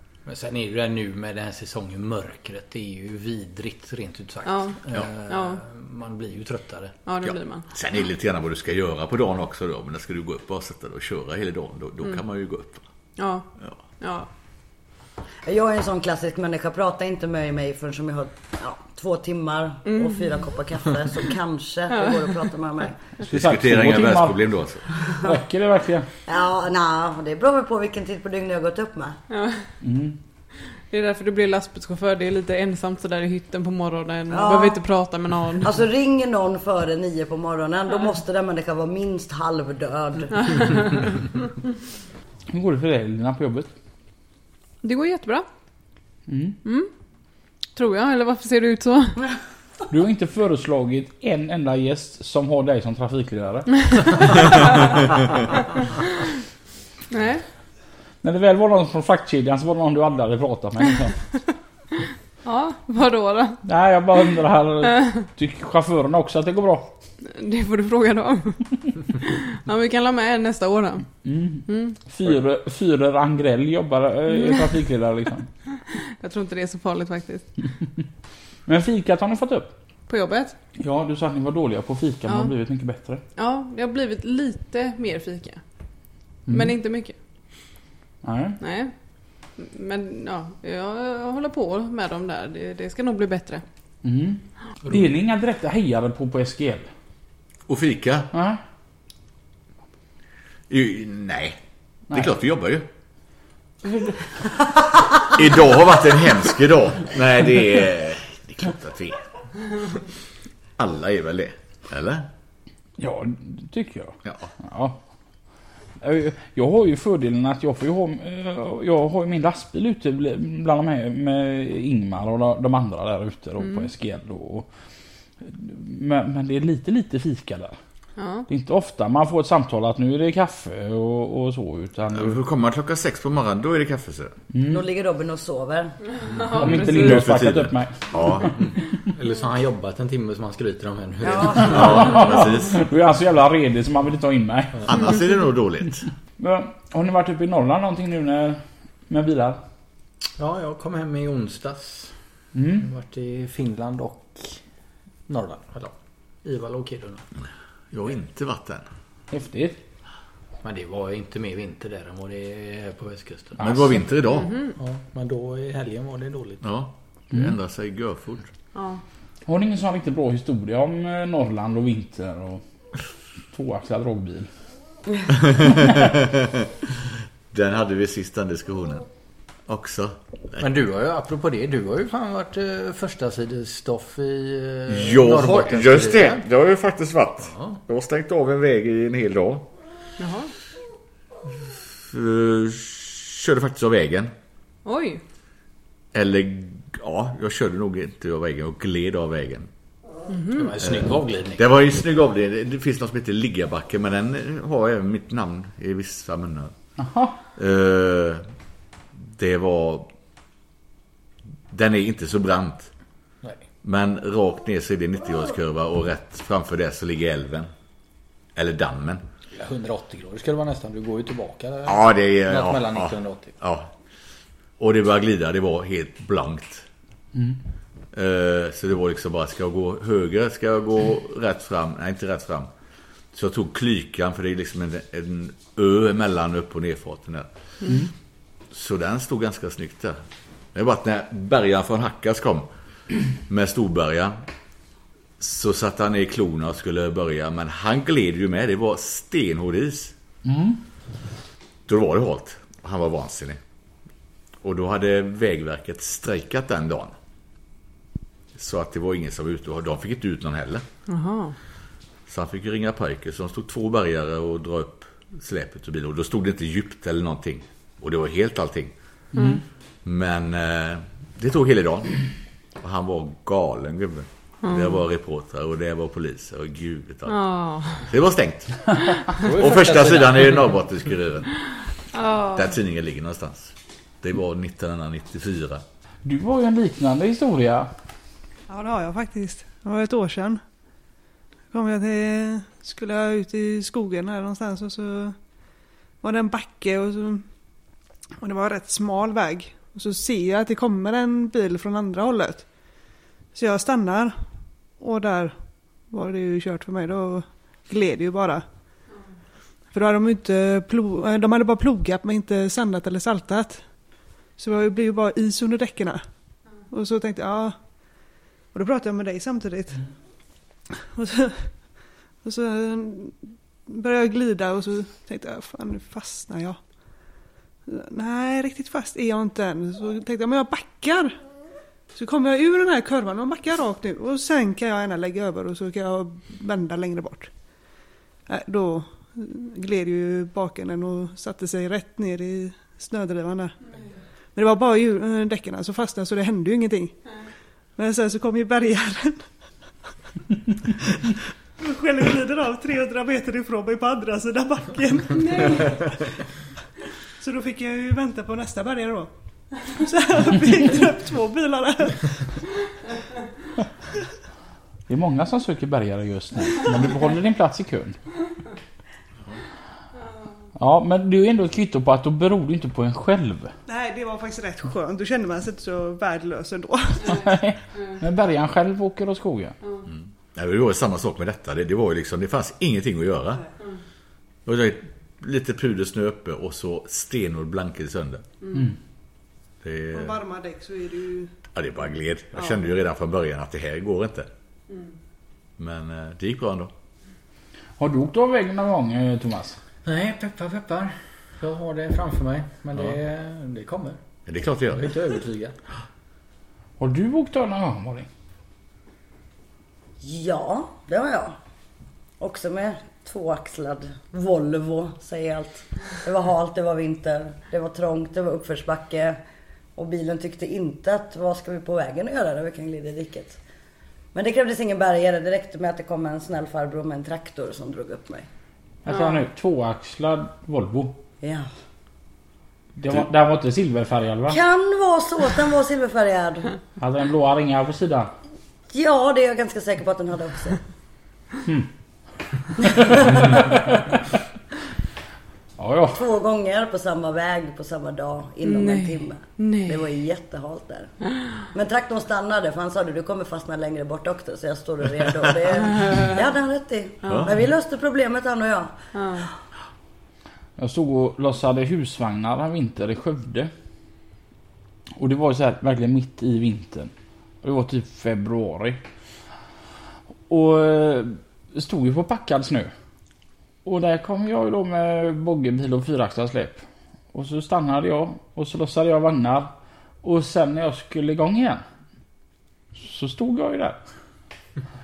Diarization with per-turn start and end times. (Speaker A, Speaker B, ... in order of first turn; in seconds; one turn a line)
Speaker A: 0.2-7.0
Speaker B: 4.5-4.8
Speaker B: 5.3-5.6
Speaker B: 7.1-7.7
Speaker C: 7.2-12.8
Speaker B: 13.2-13.5
Speaker B: 14.0-14.3
Speaker D: 15.4-23.0
Speaker B: 19.9-20.3
Speaker B: 21.9-22.3
Speaker E: 23.2-24.4
Speaker C: 23.2-24.8
Speaker E: 25.2-26.1
Speaker D: 26.2-29.2
Speaker B: 29.3-29.6
Speaker E: 29.8-30.2
Speaker B: 30.9-35.7
Speaker D: 34.3-34.8
Speaker D: 35.6-40.9
Speaker B: 40.4-41.0
Speaker E: 42.5-43.7
Speaker B: 44.8-45.5
Speaker E: 46.3-46.6
Speaker B: 46.6-46.9
Speaker B: 47.8-49.2
Speaker E: 49.9-54.6
Speaker B: 57.1-57.4
Speaker E: 58.2-61.2
Speaker B: 62.4-63.6
Speaker E: 63.6-66.9
Speaker B: 67.2-71.1
Speaker E: 71.2-75.5
Speaker B: 71.7-72.0
Speaker B: 75.9-77.5
Speaker E: 78.7-79.7
Speaker B: 80.1-80.5
Speaker E: 80.8-83.2
Speaker B: 83.3-85.6
Speaker E: 86.5-86.7
Speaker B: 86.5-87.1
Speaker E: 88.2-88.6
Speaker B: 88.6-88.9
Speaker B: 89.6-93.6
Speaker E: 94.0-96.9
Speaker C: 97.7-98.3
Speaker E: 98.3-98.6
Speaker C: 100.7-101.6
Speaker C: 102.1-102.9
Speaker E: 103.8-104.2
Speaker C: 105.2-109.2
Speaker C: 110.8-112.3
Speaker E: 113.0-115.0
Speaker C: 114.2-114.5
Speaker E: 116.0-124.7
Speaker E: 125.4-127.7
Speaker B: 128.2-128.5
Speaker E: 128.5-132.4
Speaker C: 132.1-134.3
Speaker E: 134.5-134.8
Speaker D: 134.7-135.9
Speaker B: 136.2-137.2
Speaker E: 136.5-138.5
Speaker C: 136.6-138.5
Speaker A: 138.6-142.0
Speaker D: 141.2-142.1
Speaker C: 141.6-142.8
Speaker E: 141.7-145.0
Speaker C: 144.8-146.1
Speaker E: 146.4-149.6
Speaker A: 150.4-152.1
Speaker E: 152.5-152.9
Speaker A: 152.8-154.6
Speaker A: 155.3-157.3
Speaker C: 157.9-158.8
Speaker E: 159.3-159.8
Speaker A: 160.6-163.7
Speaker C: 163.6-164.6
Speaker A: 164.8-166.6
Speaker C: 166.6-168.5
Speaker B: 168.7-169.0
Speaker E: 169.5-172.6
Speaker E: 173.5-174.5
Speaker C: 175.3-176.7
Speaker C: 177.5-179.1
Speaker C: 179.7-180.6
Speaker A: 180.6-186.4
Speaker C: 184.9-189.7
Speaker A: 187.5-187.8
Speaker B: 190.2-190.5
Speaker C: 192.1-194.3
Speaker B: 194.8-195.2
Speaker C: 196.1-199.7
Speaker B: 200.3-200.6
Speaker A: 200.5-201.6
Speaker C: 200.8-206.7
Speaker E: 207.0-207.4
Speaker C: 207.6-208.4
Speaker C: 209.2-210.1
Speaker C: 211.7-212.9
Speaker C: 213.8-217.7
Speaker C: 218.6-219.2
Speaker A: 219.5-223.5
Speaker C: 221.9-223.9
Speaker C: 224.8-226.9
Speaker C: 228.1-232.7
Speaker C: 233.3-237.5
Speaker C: 238.7-240.2
Speaker C: 240.7-242.7
Speaker C: 243.5-244.4
Speaker C: 245.4-250.1
Speaker E: 250.4-250.8
Speaker C: 251.9-253.6
Speaker C: 254.6-257.1
Speaker C: 258.5-260.8
Speaker B: 261.1-261.5
Speaker C: 262.3-268.9
Speaker E: 269.3-269.6
Speaker C: 270.0-272.2
Speaker C: 272.8-277.4
Speaker B: 274.6-275.0
Speaker B: 277.3-278.1
Speaker C: 278.0-281.6
Speaker A: 279.4-280.7
Speaker B: 282.1-282.7
Speaker C: 282.5-285.8
Speaker E: 286.2-287.9
Speaker F: 288.7-290.6
Speaker F: 291.7-295.4
Speaker F: 296.2-297.4
Speaker F: 298.4-302.6
Speaker F: 303.5-304.4
Speaker F: 305.0-305.5
Speaker F: 306.1-308.6
Speaker F: 309.9-313.8
Speaker F: 314.6-316.2
Speaker F: 316.9-317.8
Speaker F: 318.7-320.0
Speaker F: 321.0-321.7
Speaker F: 322.4-326.8
Speaker F: 327.9-331.4
Speaker F: 332.1-337.5
Speaker F: 338.5-343.8
Speaker F: 344.5-347.2
Speaker F: 347.9-349.4
Speaker F: 351.0-356.1
Speaker B: 355.5-355.9
Speaker F: 357.4-359.3
Speaker F: 359.9-362.5
Speaker E: 365.1-368.2
Speaker E: 370.8-373.7
Speaker F: 373.9-377.4
Speaker E: 377.2-379.8
Speaker C: 380.1-383.6
Speaker C: 384.6-388.4
Speaker C: 389.8-390.4
Speaker F: 390.1-391.5
Speaker C: 391.7-394.5
Speaker C: 395.8-396.9
Speaker E: 398.0-399.8
Speaker A: 400.0-404.2
Speaker C: 404.4-405.1
Speaker A: 405.0-405.7
Speaker E: 407.0-408.3
Speaker D: 410.2-411.6
Speaker D: 412.4-419.4
Speaker D: 419.9-423.6
Speaker D: 424.3-428.5
Speaker E: 429.0-431.2
Speaker B: 429.1-429.4
Speaker D: 431.4-431.7
Speaker E: 432.9-434.6
Speaker D: 434.5-436.7
Speaker E: 437.0-438.3
Speaker D: 438.9-440.8
Speaker D: 442.9-443.6
Speaker E: 443.4-443.8
Speaker E: 445.8-446.2
Speaker D: 446.1-451.1
Speaker B: 448.6-450.1
Speaker D: 451.7-459.4
Speaker C: 457.3-457.5
Speaker B: 459.1-459.5
Speaker E: 460.8-463.7
Speaker E: 465.2-467.1
Speaker E: 467.6-469.0
Speaker E: 470.5-472.9
Speaker E: 473.8-479.7
Speaker E: 480.2-481.8
Speaker E: 482.9-484.0